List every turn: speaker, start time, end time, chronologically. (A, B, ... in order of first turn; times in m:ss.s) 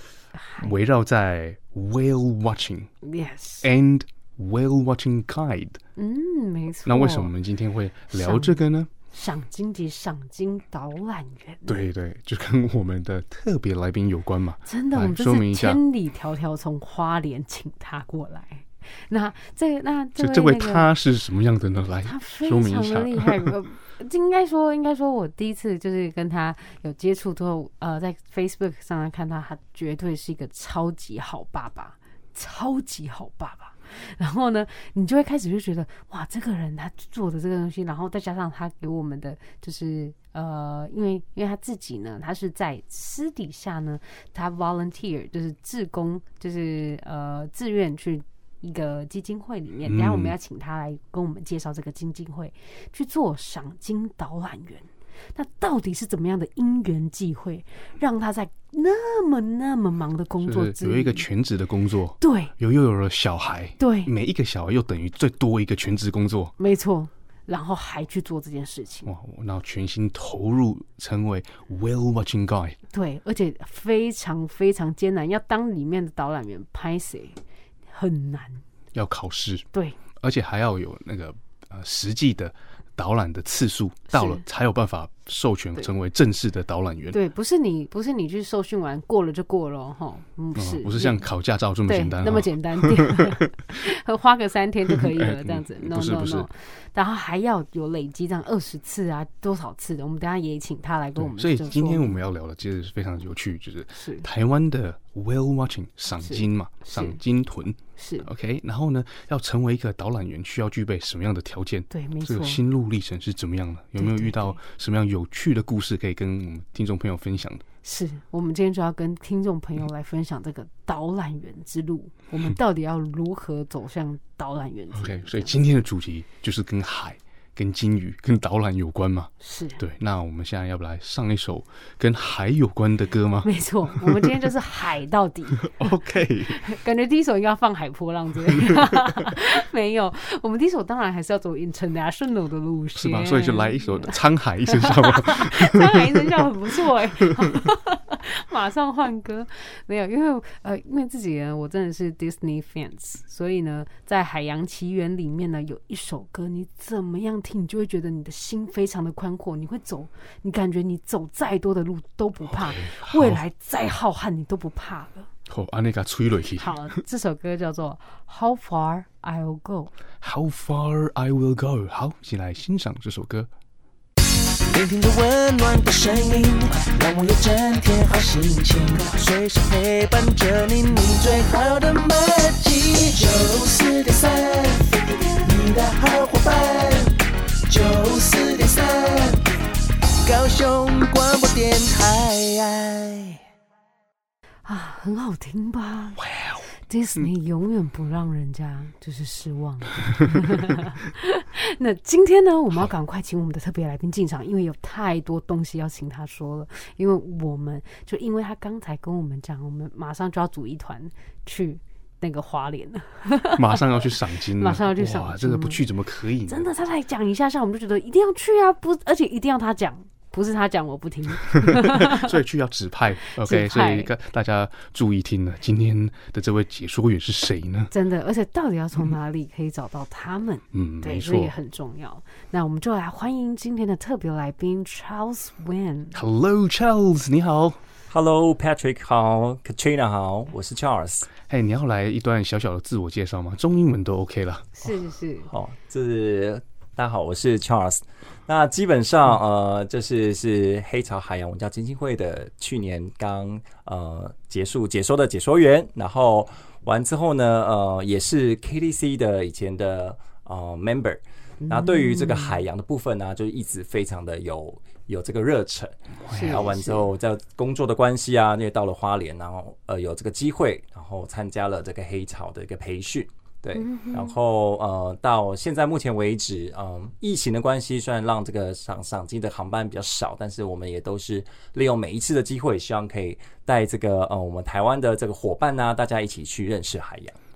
0:00.3-0:00.7 A
0:00.6-0:02.9 B
0:03.0-0:03.7 A
0:03.6-0:05.8 B
0:06.0-0:07.3 A
0:06.9-0:08.9 B
0:08.1-0:08.6 A
0:09.1-0:11.8 A
0:11.7-0:15.8 B
0:14.6-0:20.9 A
0:20.2-0:23.5 B
0:22.0-1:01.3 A
0:49.9-0:50.4 B
1:00.4-1:06.5 B
1:02.2-1:02.5 A
1:03.8-1:04.1 A
1:06.6-1:09.1 A
1:09.1-1:12.8 B
1:12.9-1:17.4 A
1:17.9-1:18.6 A
1:18.9-1:19.6 B
1:20.2-1:27.2 B
1:24.1-1:24.4 A
1:27.1-1:31.2 A
1:30.6-1:33.8 B
1:31.9-1:42.2 A
1:34.9-1:36.5 B
1:41.2-1:57.6 B
1:43.9-1:44.3 A
1:46.2-1:47.2 A
1:48.0-1:48.3 A
1:51.9-1:52.6 A
1:54.0-1:54.6 A
1:57.8-2:05.6 A
2:04.9-2:14.3 B
2:09.4-2:09.8 A
2:13.4-2:15.8 A
2:15.6-2:16.6 B
2:16.5-2:45.3 A
2:18.5-2:19.4 B
2:23.0-2:26.5 B
2:42.4-2:43.4 B
2:45.5-2:46.8 B
2:46.6-2:49.9 A
2:50.2-2:53.5 B
2:54.6-3:07.2 C
3:07.7-3:09.4 C
3:10.2-3:13.4 C
3:14.6-3:16.2 A
3:16.2-3:16.7 B
3:16.9-3:35.8 A
3:33.6-3:36.7 B
3:36.4-3:42.4 A
3:41.7-3:47.9 B
3:43.3-3:44.1 A
3:47.9-3:56.2 A
3:50.7-3:51.5 B
3:56.1-3:57.8 B
3:58.1-4:01.3 D
4:01.4-4:04.7 B
4:04.8-4:05.5 A
4:05.5-4:47.4 D
4:21.6-4:22.6 A
4:26.2-4:26.7 B
4:26.3-4:27.1 A
4:33.7-4:34.3 A